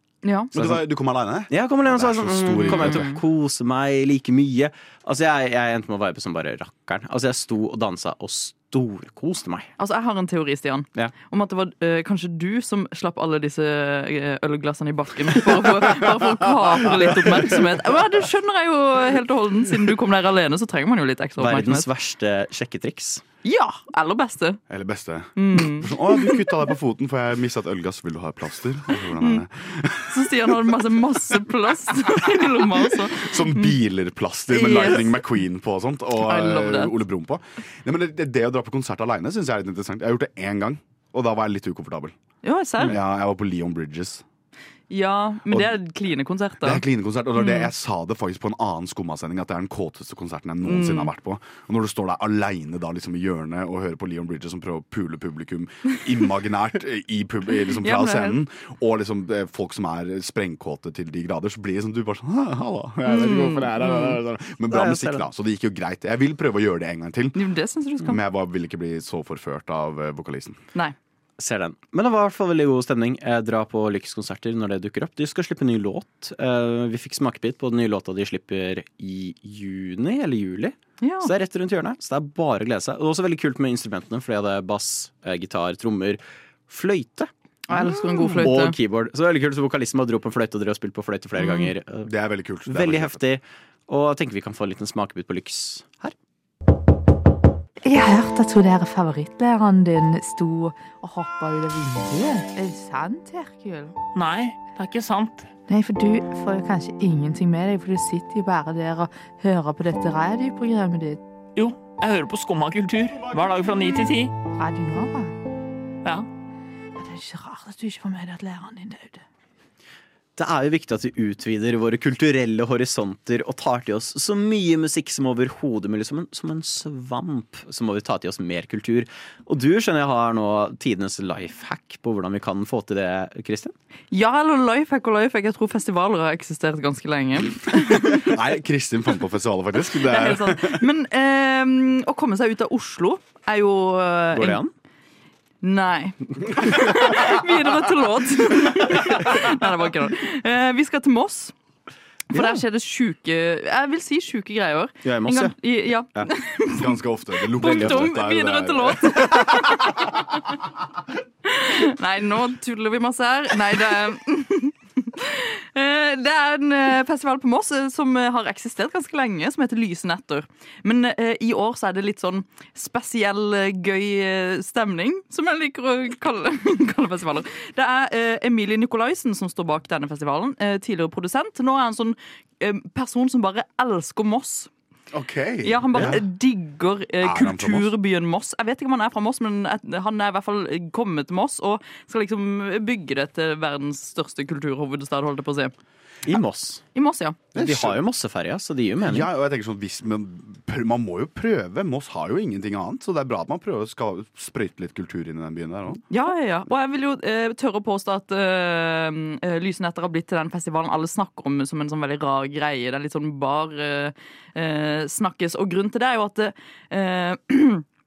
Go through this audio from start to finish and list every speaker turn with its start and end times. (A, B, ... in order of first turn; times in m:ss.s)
0:00.2-0:00.5 A
0:00.5-0:00.8 B
0:00.5-0:03.1 C
0:01.5-0:09.7 B
0:02.7-0:03.2 A
0:09.8-0:21.9 A
0:16.5-0:17.5 C
0:21.4-0:23.2 B
0:23.4-0:24.6 A
0:24.7-0:30.8 C
0:25.4-0:26.5 A
0:30.1-0:33.8 A
0:32.1-0:42.1 C
0:34.5-0:35.3 A
0:36.2-0:37.0 A
0:42.4-0:43.0 A
0:42.8-0:44.2 C
0:44.9-0:46.8 A
0:46.6-1:07.4 C
0:47.4-0:47.7 A
0:50.6-0:51.1 A
0:57.8-0:58.4 A
1:03.1-1:04.2 A
1:04.7-1:05.3 B
1:07.4-1:08.2 A
1:08.0-1:10.6 C
1:11.4-1:32.1 B
1:21.0-1:21.3 A
1:27.7-1:28.8 A
1:31.4-1:31.7 A
1:32.1-1:33.2 C
1:32.7-1:36.2 B
1:37.8-1:44.0 D
1:44.2-1:45.5 E
1:45.7-1:51.2 D
1:51.6-1:54.3 E
1:54.6-1:55.3 D
1:57.0-1:59.2 D
2:00.4-2:13.7 B
2:14.1-2:18.4 A
2:17.7-2:20.8 C
2:19.9-2:24.6 A
2:24.3-2:24.7 B
2:25.6-2:31.5 A
2:32.3-2:37.0 A
2:32.3-2:32.6 B
2:35.0-2:35.6 B
2:36.8-2:40.2 C
2:37.5-2:40.2 A
2:37.7-2:38.1 B
2:41.4-3:04.7 A
3:05.1-3:06.2 C
3:05.6-3:15.7 A
3:07.2-3:07.9 C
3:16.3-3:16.8 B
3:17.0-3:17.4 A
3:17.5-3:18.0 C
3:17.6-3:19.3 B
3:19.0-3:26.0 C
3:26.1-3:37.8 A